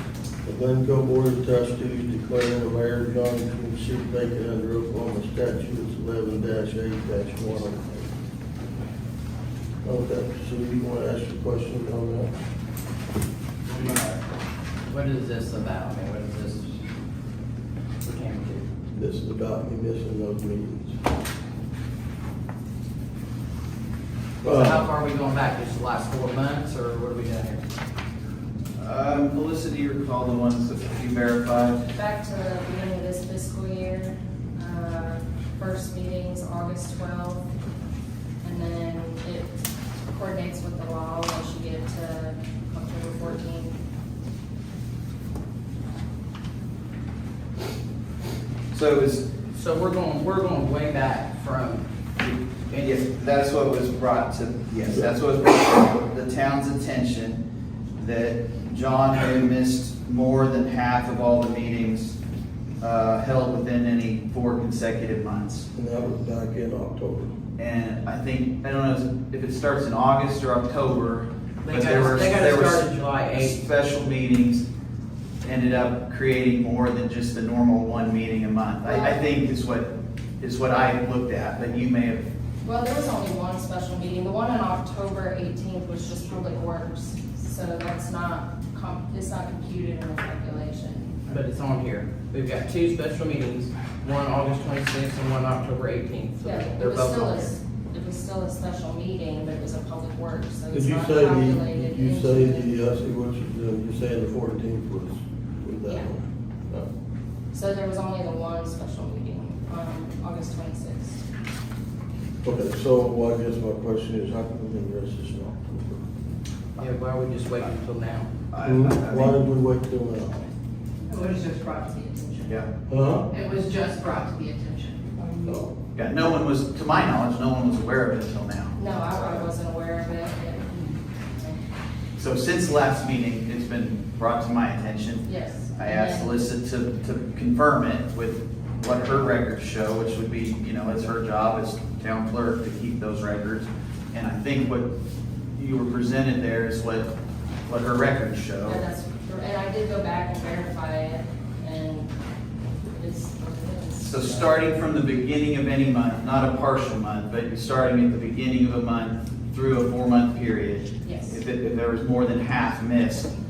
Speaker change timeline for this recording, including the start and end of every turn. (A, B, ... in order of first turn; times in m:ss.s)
0:00.4-0:08.1 A
0:09.8-0:12.3 A
0:13.7-0:14.2 B
0:14.9-0:16.7 B
0:18.0-0:18.6 B
0:18.9-0:21.0 A
0:24.4-0:24.9 A
0:24.4-0:27.6 B
0:28.8-0:31.8 C
0:31.9-0:37.5 D
0:38.4-0:43.8 D
0:48.7-0:49.2 C
0:49.5-0:51.9 B
0:52.2-0:57.4 C
0:58.0-1:02.2 C
1:02.8-1:05.7 C
1:05.7-1:07.3 A
1:07.6-1:14.6 C
1:11.6-1:13.6 B
1:15.4-1:22.3 C
1:18.8-1:19.2 D
1:22.6-1:31.3 D
1:31.3-1:37.5 B
1:36.4-1:42.7 D
1:40.7-1:46.9 A
1:47.5-1:51.2 D
1:52.4-1:56.0 A
1:56.8-1:58.3 B
1:58.5-1:59.4 C
1:58.6-2:00.5 A
2:01.1-2:02.5 E
2:02.9-2:03.3 A
2:03.3-2:05.2 E
2:05.3-2:05.6 D
2:05.4-2:05.7 A
2:05.9-2:09.5 C
2:08.8-2:11.6 D
2:12.2-2:24.9 C
2:15.2-2:16.4 D
2:25.6-2:27.1 C
2:27.6-2:28.8 C
2:28.6-2:32.1 D
2:32.8-2:34.8 D
2:34.0-2:43.3 C
2:41.0-2:41.4 D